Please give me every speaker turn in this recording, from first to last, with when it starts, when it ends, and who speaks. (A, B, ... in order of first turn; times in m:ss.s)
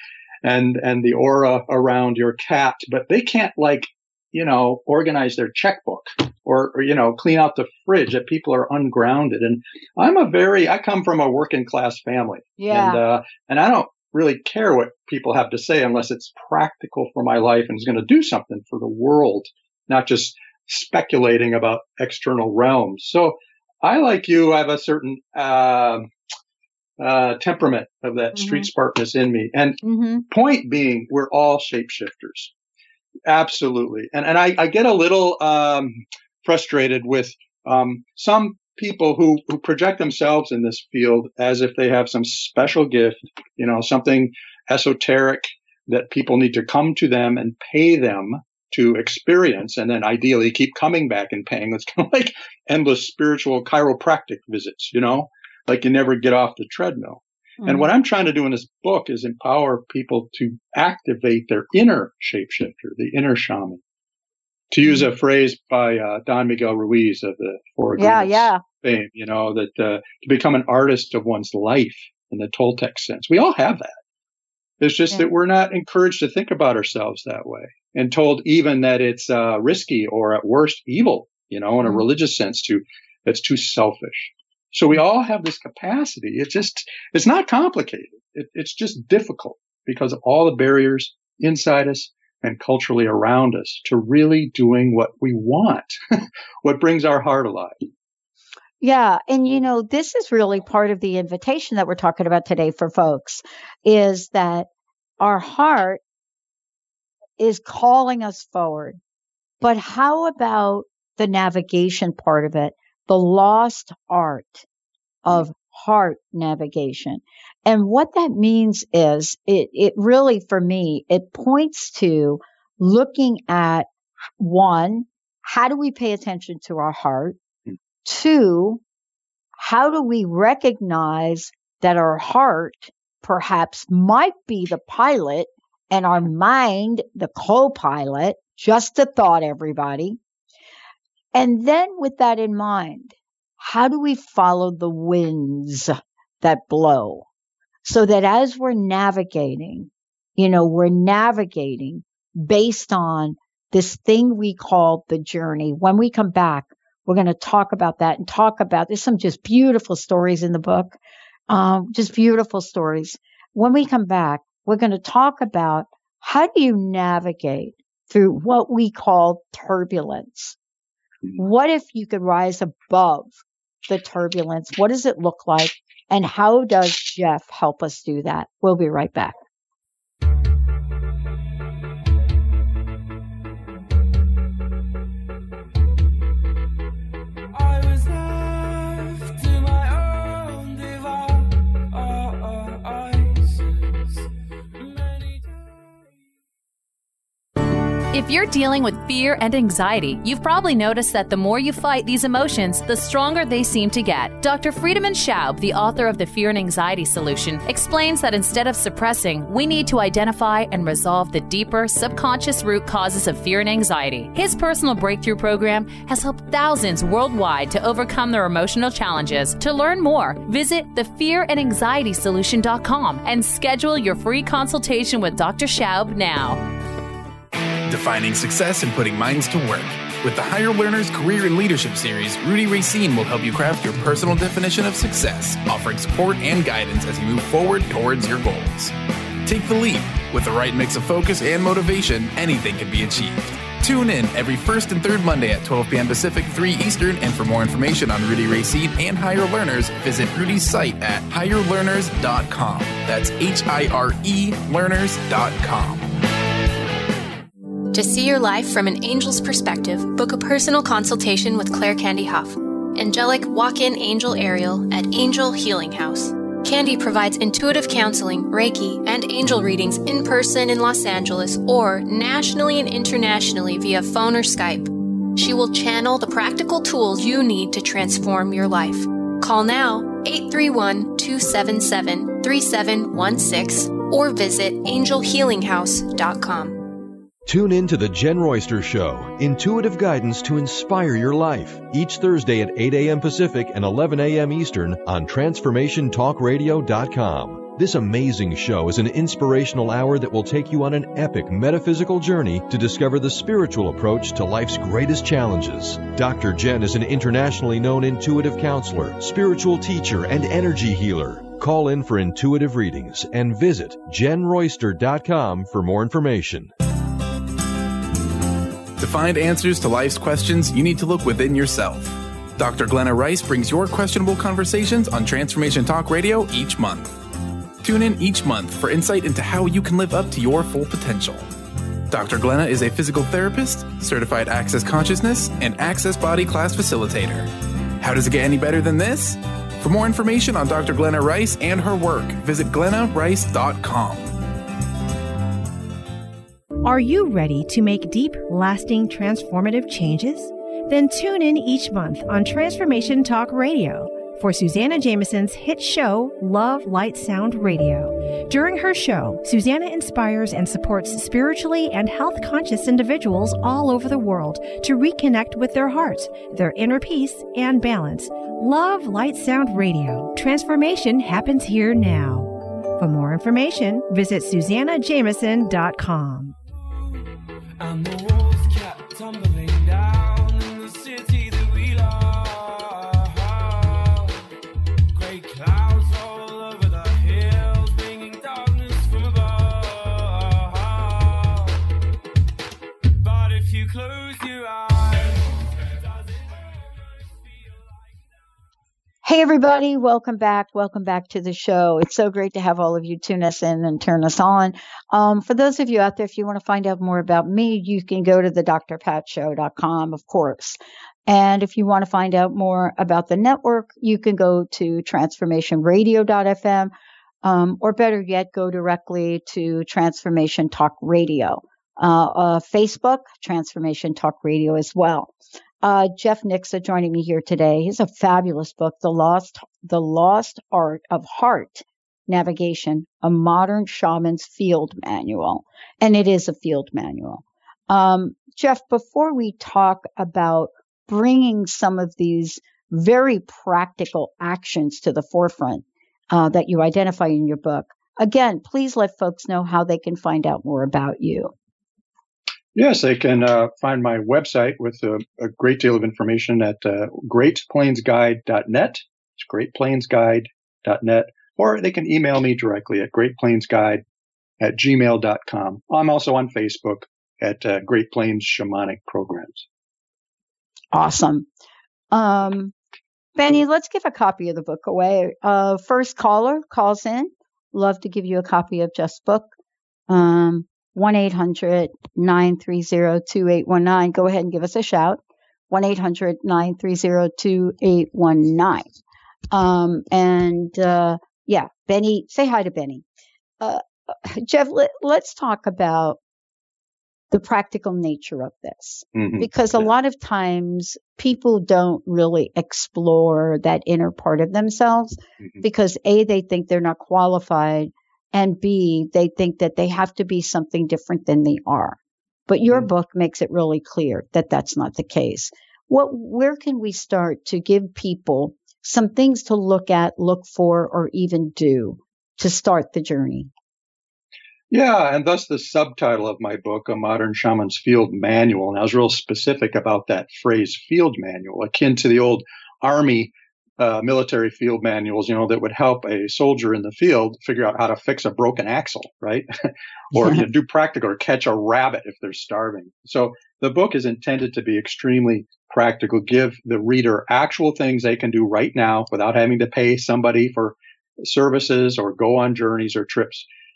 0:00.4-0:26.1 A
0:12.6-0:13.0 B
0:27.0-0:32.5 A
0:28.3-0:28.7 B
0:29.8-0:30.2 B
0:33.2-1:03.8 A
0:57.6-0:57.9 B
1:04.7-1:13.9 A
1:08.0-1:08.6 B
1:14.8-1:37.8 A
1:38.8-1:44.7 B
1:45.2-1:46.0 B
1:47.4-1:49.0 B
1:49.6-1:54.6 B
1:55.2-2:03.9 B
2:04.4-2:07.4 B
2:08.0-2:08.8 B
2:09.6-2:20.2 B
2:21.3-2:27.2 B
2:27.8-2:41.0 B
2:41.5-2:50.6 B
2:51.4-2:59.4 B
3:07.5-3:13.6 C
3:14.8-3:15.5 C
3:18.1-3:46.6 D
3:47.9-3:58.9 E
3:59.4-4:16.1 E
4:17.9-4:47.0 F
4:47.4-5:16.7 G
5:19.0-5:27.1 E
5:27.8-5:31.5 E
5:32.1-5:44.3 E
5:46.8-6:16.5 H
6:17.8-6:24.4 C
6:25.1-6:31.8 C
6:33.2-6:38.2 C
6:39.2-6:56.9 B
6:57.4-7:31.5 B
7:32.7-7:44.0 A
7:44.6-7:49.6 A
7:50.9-7:51.4 B
7:52.1-7:52.7 B
7:53.4-7:59.5 B
8:00.1-8:08.9 B
8:09.5-8:13.0 B
8:13.6-8:16.2 B
8:17.3-8:43.5 B
8:19.1-8:19.8 A
8:44.7-8:59.5 A
9:00.1-9:13.4 A